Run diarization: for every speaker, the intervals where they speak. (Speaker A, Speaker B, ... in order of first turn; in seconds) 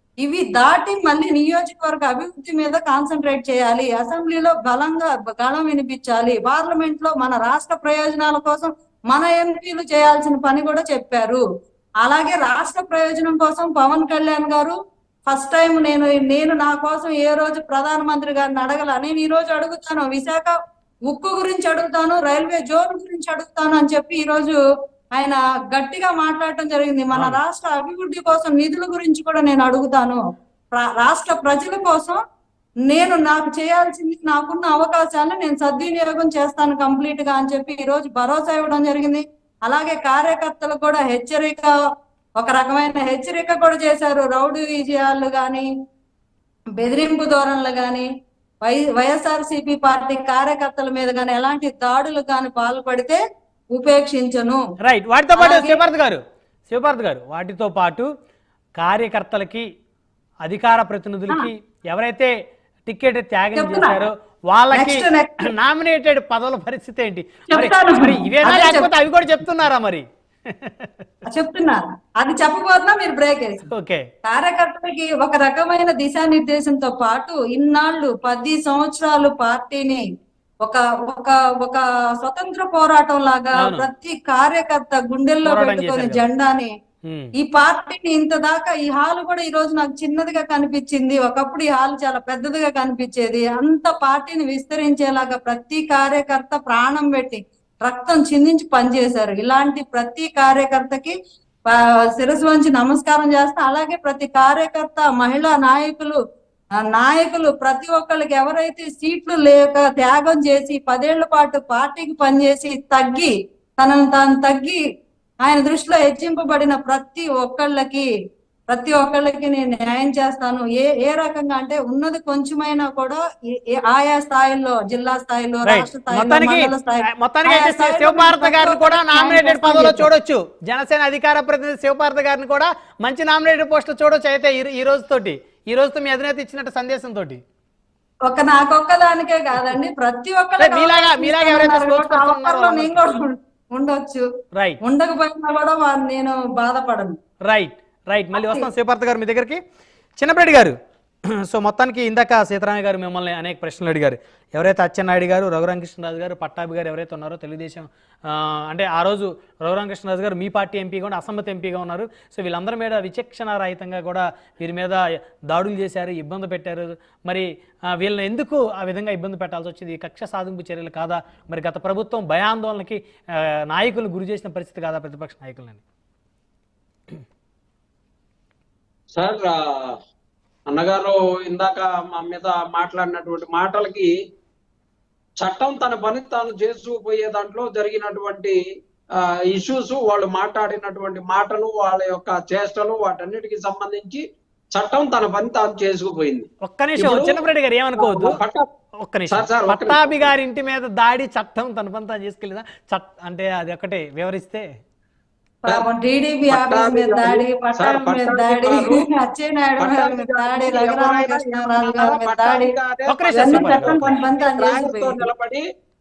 Speaker A: 0.2-11.4, 12.0-14.8, 15.3-20.5, 21.1-24.6, 25.1-30.2, 30.7-32.2, 32.9-41.8, 42.4-45.7, 46.8-48.1, 48.6-53.2, 53.7-54.6, 55.4-55.8, 63.5-64.1, 64.7-65.5, 67.5-68.9, 71.3-73.7, 74.2-80.1, 80.6-86.7, 87.4-101.2, 101.7-106.2, 106.8-114.8, 115.4-118.1, 118.7-130.1, 138.3-144.2, 144.8-147.2, 148.3-148.7, 205.7-212.7, 213.3-215.3
Speaker B: 27.1-27.4, 54.8-58.1, 58.8-59.7, 60.5-62.3, 62.9-71.0, 73.7-74.1, 83.6-83.9, 85.4-86.3, 87.0-87.3, 125.7-137.4, 140.6-143.2, 147.4-149.6, 150.2-150.8, 151.4-175.8, 196.6-198.4, 199.0-204.7, 213.1-214.2
Speaker C: 179.2-179.9, 180.7-184.1, 185.4-188.6, 189.2-194.2, 194.7-197.4, 198.0-198.7, 199.3-200.3, 206.5-209.1, 209.8-215.7